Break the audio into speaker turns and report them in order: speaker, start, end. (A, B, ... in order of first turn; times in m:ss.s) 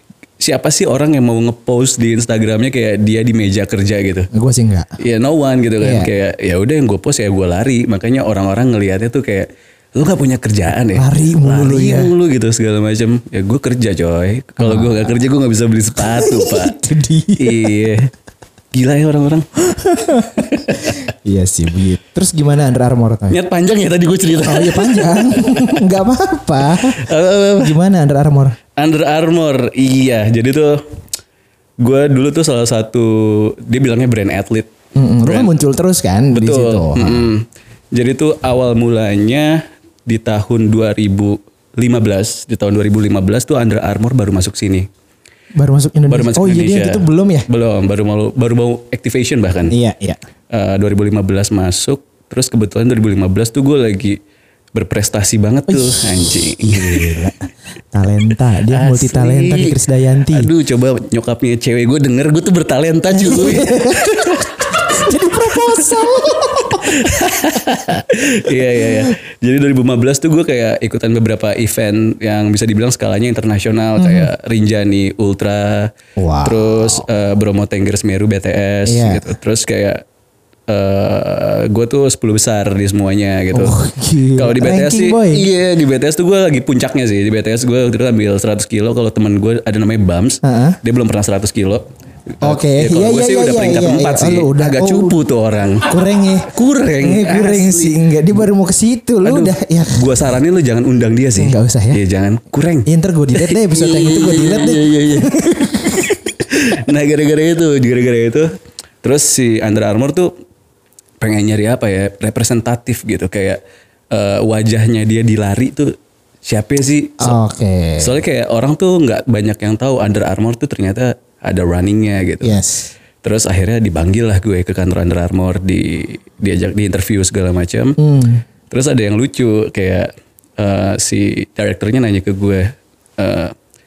0:00.4-0:04.3 A
0:04.3-0:04.9 B
0:05.0-0:16.8 A
0:05.8-0:06.1 B
0:10.9-0:12.1 B
0:14.6-0:15.2 B
0:16.0-0:17.8 B
0:17.4-0:18.1 A
0:18.7-0:19.5 A
0:19.6-0:23.4 B
0:20.3-0:21.0 A
0:23.3-0:25.8 A
0:24.4-0:28.6 B
0:26.9-0:27.8 A
0:28.8-0:30.8 A
0:31.8-0:34.7 A
0:35.0-0:37.3 B
0:35.2-0:35.5 A
0:36.3-0:44.9 A
0:45.6-0:47.5 B
0:46.1-0:49.8 A
0:49.7-0:50.2 B
0:50.5-0:54.2 A
0:54.7-0:57.3 A
0:55.7-0:57.4 B
0:57.9-1:00.5 B
0:58.7-1:04.8 A
1:03.1-1:07.0 B
1:05.7-1:06.0 A
1:06.5-1:20.0 A
1:08.6-1:09.1 B
1:14.0-1:14.3 B
1:16.2-1:17.0 B
1:18.8-1:19.3 B
1:20.7-1:23.8 A
1:23.5-1:25.5 B
1:24.4-1:35.9 A
1:30.4-1:30.8 B
1:32.4-1:35.2 B
1:35.9-1:40.2 B
1:36.5-1:38.0 A
1:39.2-1:45.3 A
1:41.4-1:42.0 B
1:42.9-1:46.3 B
1:46.5-1:48.5 A
1:49.0-1:50.3 A
1:51.2-1:53.6 A
1:54.1-1:55.9 A
1:56.5-1:57.4 A
1:57.2-1:58.2 B
1:58.0-2:02.6 A
2:02.4-2:02.9 B
2:03.2-2:08.0 A
2:08.0-2:08.4 B
2:08.7-2:13.5 A